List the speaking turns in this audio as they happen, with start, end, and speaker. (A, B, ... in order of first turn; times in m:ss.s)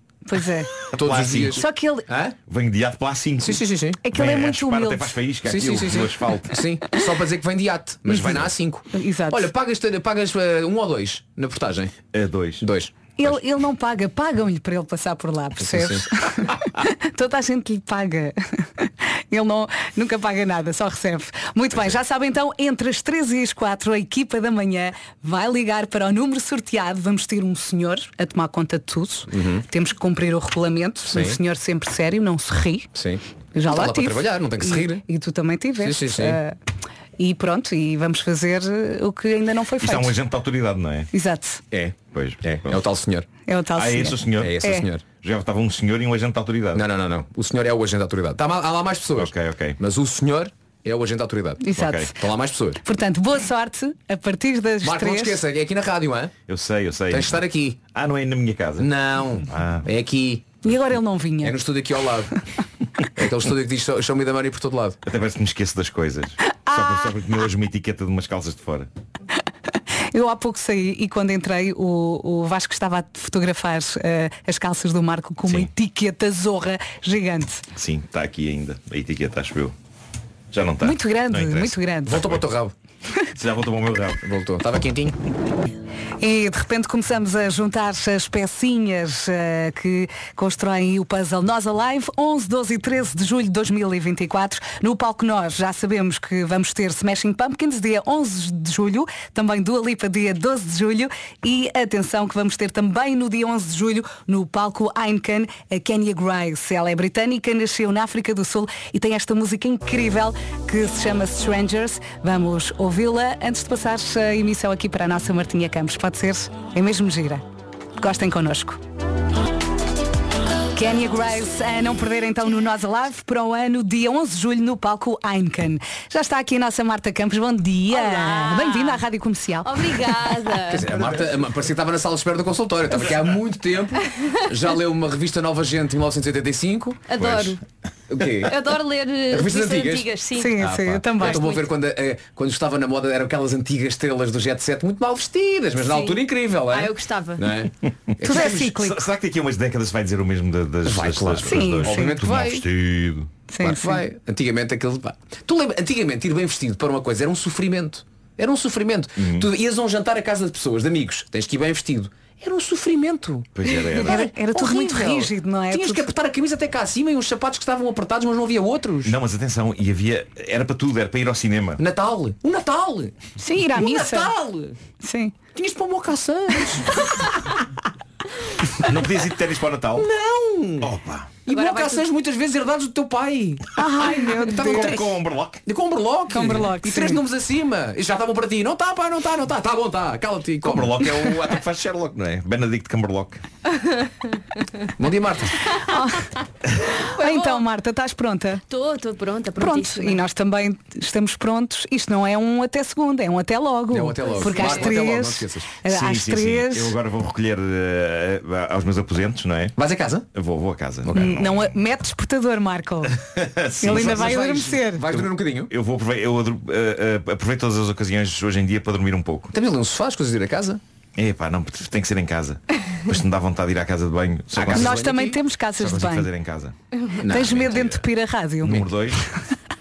0:00.2-0:00.7 A
0:00.9-0:02.4 B
0:00.9-0:01.6 C
0:01.6-0:02.1 A
0:02.4-0:06.6 C
0:03.4-0:04.0 B
0:04.0-0:05.1 A
0:05.4-0:11.9 B
0:08.2-0:08.5 C
0:08.9-0:09.5 A
0:12.1-0:12.6 C
0:12.6-0:12.9 B
0:13.2-0:32.9 A
0:15.6-0:16.0 B
0:29.3-0:29.6 B
0:31.1-0:31.4 B
0:32.9-0:35.0 B
0:33.5-0:36.6 A
0:35.8-0:36.4 B
0:37.2-0:40.1 A
0:39.8-0:41.1 C
0:41.1-0:41.6 A
0:41.7-0:43.3 B
0:42.1-0:42.8 C
0:43.4-0:44.8 A
0:43.7-0:44.6 C
0:44.4-0:45.0 B
0:45.2-0:46.8 C
0:46.7-0:52.8 B
0:49.2-0:49.8 C
0:51.6-0:52.1 A
0:51.8-0:52.1 C
0:52.8-0:55.4 A
0:54.8-0:56.3 B
0:56.5-0:58.9 C
0:57.1-0:57.8 B
0:58.8-1:00.6 B
0:59.4-0:59.9 C
1:00.6-1:01.5 A
1:01.4-1:02.4 B
1:03.2-1:05.0 B
1:05.0-1:08.9 C
1:06.7-1:07.1 A
1:10.1-1:17.6 A
1:17.7-1:19.7 C
1:20.5-1:22.5 C
1:20.8-1:22.2 A
1:22.0-1:22.7 B
1:23.3-1:24.2 C
1:24.2-1:25.2 B
1:26.2-1:57.4 A
1:58.0-1:58.8 A
2:00.7-2:09.7 A
2:07.9-2:09.0 D
2:09.6-2:10.9 D
2:10.7-2:17.5 B
2:17.1-2:17.6 D
2:17.1-2:17.5 C
2:18.1-2:18.6 B
2:18.5-2:20.5 D
2:19.3-2:28.7 B
2:20.3-2:21.5 A
2:21.3-2:21.6 D
2:25.8-2:27.4 D
2:28.2-2:29.0 A
2:28.3-2:33.3 C
2:30.8-2:32.7 B
2:31.5-2:32.2 A
2:33.5-2:34.0 A
2:33.6-2:49.2 B
2:39.2-2:39.5 C
2:43.6-2:44.3 C
2:44.0-2:46.0 A
2:49.0-2:51.8 C
2:51.8-2:53.1 B
2:53.4-2:54.3 A
2:53.7-2:54.8 B
2:55.0-2:55.3 A
2:55.5-2:57.5 B
2:58.8-3:00.1 C
2:59.9-3:00.9 B
3:00.8-3:01.4 C
3:01.4-3:03.7 B
3:01.5-3:02.0 D
3:03.8-3:05.0 A
3:04.3-3:05.1 B
3:04.6-3:05.6 C
3:05.6-3:11.2 B
3:06.3-3:07.2 A
3:10.6-3:13.4 C
3:15.0-3:15.6 B
3:15.8-3:16.3 A
3:17.1-3:17.6 D
3:17.2-3:18.6 A
3:18.7-3:20.2 D
3:19.6-3:27.0 A
3:23.9-3:25.8 B
3:24.3-3:24.7 D
3:25.9-3:29.8 C
3:29.8-3:30.3 B
3:30.3-3:31.7 C
3:31.0-3:31.3 B
3:31.2-3:33.2 A
3:33.1-3:34.4 C
3:33.8-3:35.0 A
3:33.8-3:35.7 B
3:35.1-3:39.5 C
3:39.5-3:40.8 B
3:41.2-3:45.0 C
3:44.5-3:45.4 B
3:44.7-3:46.3 A
3:45.8-3:46.7 C
3:47.2-3:48.0 B
3:47.2-3:48.8 A
3:48.6-3:49.2 C